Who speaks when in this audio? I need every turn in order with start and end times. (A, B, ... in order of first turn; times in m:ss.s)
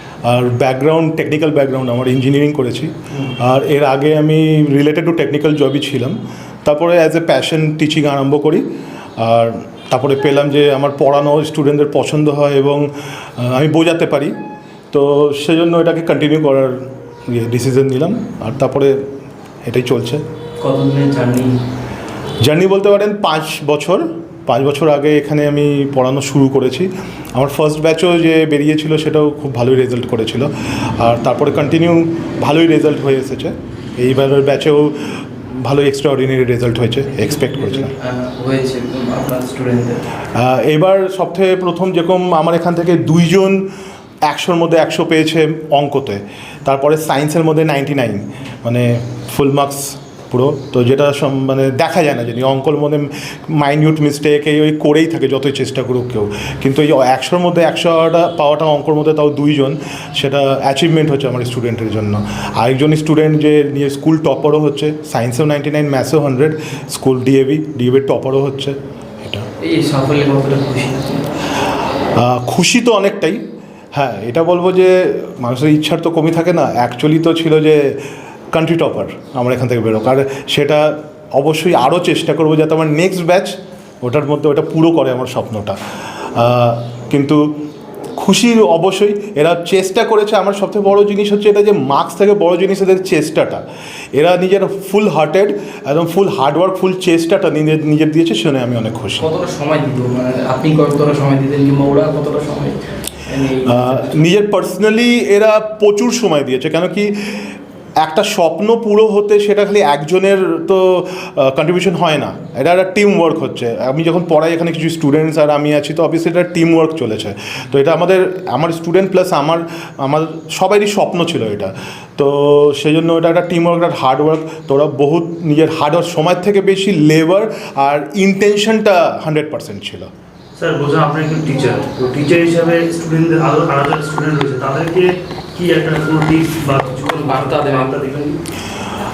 0:00.2-0:08.6 A
0:09.2-0:12.8 A
0:13.4-0:14.3 A
0:14.9-0:16.7 A
0:17.3-0:19.0 A
0:19.6-0:20.2 A
0:20.6-0:21.6 B
0:22.4-0:37.9 A
0:37.2-0:40.0 B
0:40.3-0:43.7 A
0:44.3-1:09.4 A
1:09.6-1:11.2 B
1:12.2-1:13.4 A
1:13.9-1:17.8 A
1:18.5-1:25.8 A
1:26.4-1:27.4 A
1:28.2-1:33.6 A
1:34.2-1:39.3 A
1:39.2-1:44.3 B
1:43.6-1:47.1 A
1:48.0-2:10.1 A
2:10.6-2:18.4 C
2:17.1-2:17.9 B